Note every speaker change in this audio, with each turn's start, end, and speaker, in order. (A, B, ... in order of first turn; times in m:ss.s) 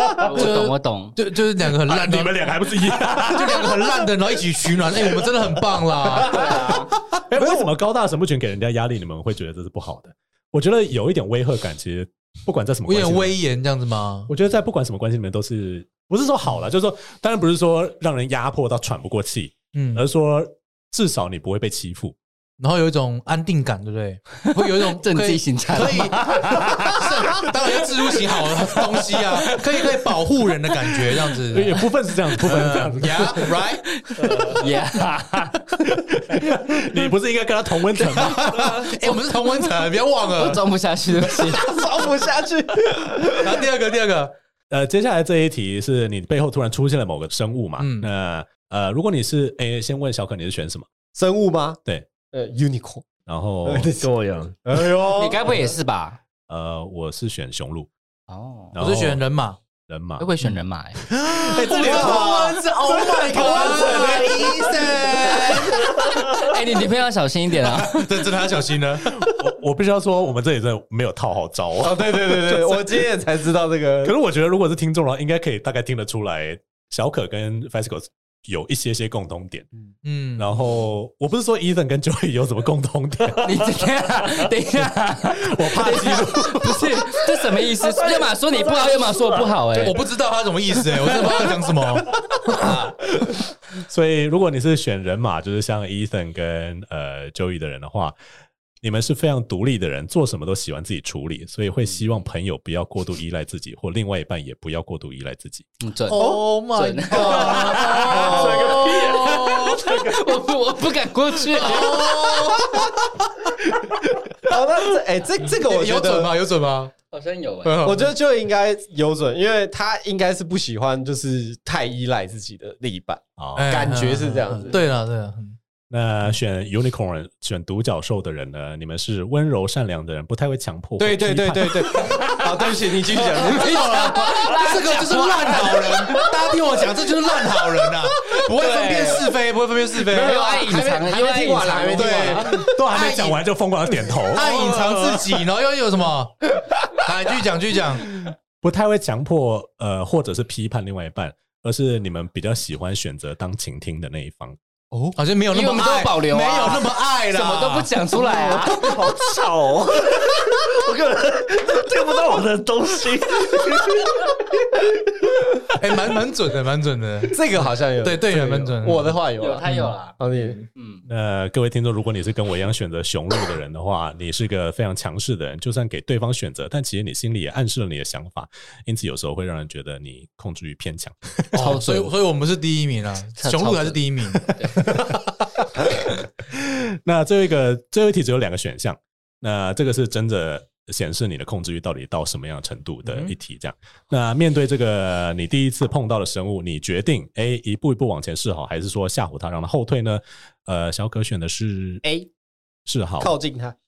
0:00.2-0:01.1 A
0:00.3-0:02.5 B
0:01.8-0:03.9 C
0:03.2-0:06.5 B
0:06.2-0:06.9 A
0:06.3-0:13.4 C
0:12.9-0:14.3 B
0:14.3-0:22.2 C
0:19.7-0:20.0 B
0:22.6-0:31.8 B
0:24.5-0:27.1 A
0:28.1-0:29.6 A
0:31.5-0:33.5 C
0:32.4-0:34.4 B
0:33.9-0:35.6 A
0:35.9-0:38.8 C
0:38.0-0:39.8 A
0:38.1-0:40.6 B
0:40.3-0:41.8 A
0:41.4-0:43.6 D
0:43.4-0:44.3 B
0:44.7-0:50.9 C
0:47.8-0:48.1 B
0:51.1-0:51.8 D
0:52.3-0:53.1 D
0:53.3-0:53.9 C
0:53.6-0:54.1 D
0:54.0-0:54.6 E
0:54.6-0:55.7 D
0:55.2-0:56.2 A
0:56.5-0:57.9 C
0:58.3-0:58.8 A
0:58.7-0:59.2 C
0:58.8-0:59.6 B
0:59.9-1:00.3 C
1:00.2-1:01.0 A
1:01.1-1:05.9 B
1:01.3-1:02.6 C
1:01.7-1:05.7 D
1:06.3-1:08.3 A
1:07.7-1:09.3 B
1:09.1-1:13.1 C
1:11.8-1:14.1 D
1:14.0-1:19.7 C
1:20.0-1:20.5 B
1:20.4-1:23.6 C
1:23.4-1:30.0 A
1:25.4-1:27.1 C
1:27.7-1:29.9 E
1:29.8-1:32.2 B
1:32.5-1:32.9 C
1:33.8-1:38.1 C
1:38.8-1:45.7 C
1:45.8-1:52.2 A
1:46.1-1:50.0 B
1:47.1-1:48.9 D
1:47.7-1:48.3 C
1:51.5-1:53.3 B
1:54.4-1:56.3 D
1:55.4-1:56.9 B
1:57.1-1:57.9 A
1:57.6-1:58.1 B
1:57.8-2:04.8 D
2:03.4-2:03.9 C
2:03.6-2:05.6 B
2:05.9-2:12.0 C
2:11.0-2:14.0 D
2:12.0-2:12.5 A
2:13.3-2:16.3 A
2:13.5-2:20.4 B
2:18.4-2:19.3 A
2:20.0-2:22.6 D
2:20.1-2:22.5 A
2:21.9-2:23.4 B
2:22.5-2:25.3 C
2:24.3-2:26.4 B
2:26.9-2:28.1 B
2:28.1-2:34.6 C
2:35.1-2:37.9 B
2:35.5-2:39.0 A
2:38.3-2:44.3 E
2:45.8-2:49.9 B
2:47.3-2:50.6 D
2:49.4-2:50.2 A
2:50.8-2:51.0 A
2:51.1-3:01.7 C
3:01.5-3:04.5 B
3:01.6-3:02.1 A
3:03.4-3:04.8 A
3:06.5-3:22.0 C
3:13.1-3:13.3 B
3:22.0-3:22.3 D
3:22.9-3:23.3 C
3:23.2-3:23.8 D